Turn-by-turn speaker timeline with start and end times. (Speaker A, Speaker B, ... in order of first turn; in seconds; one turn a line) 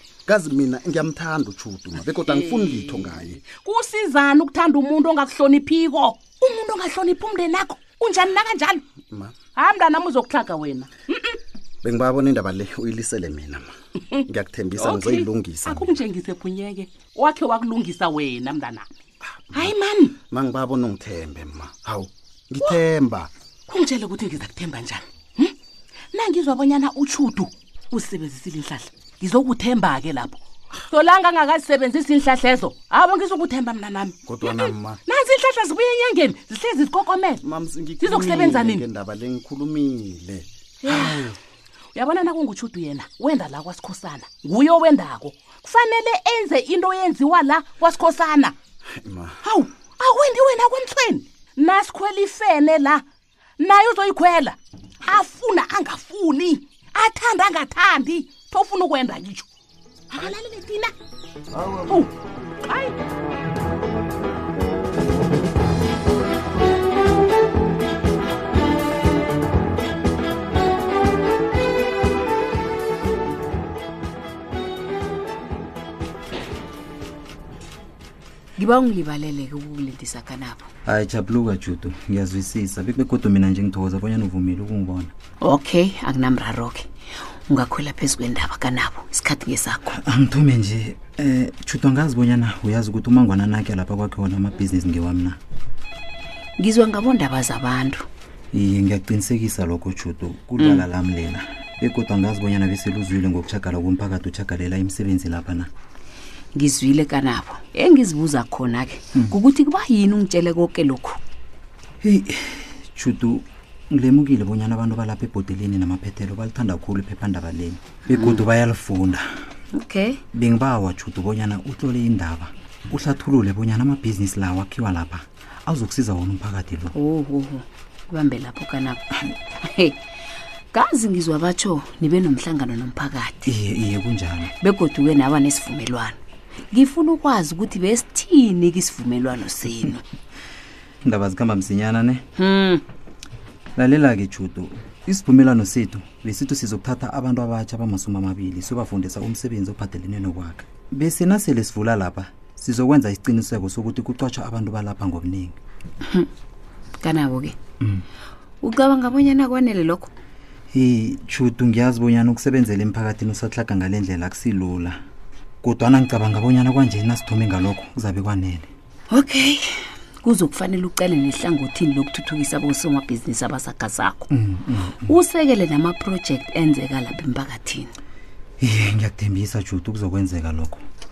Speaker A: 0.2-3.4
Speaker B: 2.3-8.8
Speaker B: 9.6-11.3
Speaker A: 11.8-13.7
Speaker A: 14.3-16.0
Speaker B: 14.8-18.9
Speaker A: 19.5-19.7
Speaker B: 19.5-20.1
Speaker A: 20.3-23.3
Speaker B: 23.7-25.5
Speaker B: 26.1-37.4
Speaker A: 34.2-35.0
Speaker A: 37.4-41.4
Speaker B: 38.0-38.9
Speaker B: 40.8-41.2
Speaker B: 41.9-48.5
Speaker A: 49.0-49.4
Speaker B: 49.4-53.0
Speaker B: 53.6-59.5
Speaker B: 60.1-60.9
Speaker B: 62.7-62.9
Speaker C: 78.6-80.7
Speaker D: 80.8-85.1
Speaker C: 85.4-86.8
Speaker C: 87.5-89.9
Speaker D: 89.9-95.4
Speaker C: 96.6-98.0
Speaker D: 98.5-105.7
Speaker C: 100.6-100.8
Speaker C: 106.5-111.2
Speaker D: 112.0-119.2
Speaker C: 118.1-118.4
Speaker C: 119.7-120.2
Speaker D: 120.3-126.9
Speaker C: 126.9-129.0
Speaker C: 129.6-129.9
Speaker C: 130.7-133.5
Speaker D: 133.4-134.5
Speaker C: 134.6-136.2
Speaker C: 136.7-140.0
Speaker D: 141.0-142.2
Speaker C: 142.4-142.8
Speaker D: 143.8-155.6
Speaker C: 157.0-157.5
Speaker C: 158.6-160.1
Speaker D: 160.7-165.0
Speaker D: 165.6-168.7
Speaker C: 169.1-169.6
Speaker C: 170.2-174.3
Speaker D: 174.3-175.2
Speaker C: 175.0-177.9
Speaker D: 178.6-180.8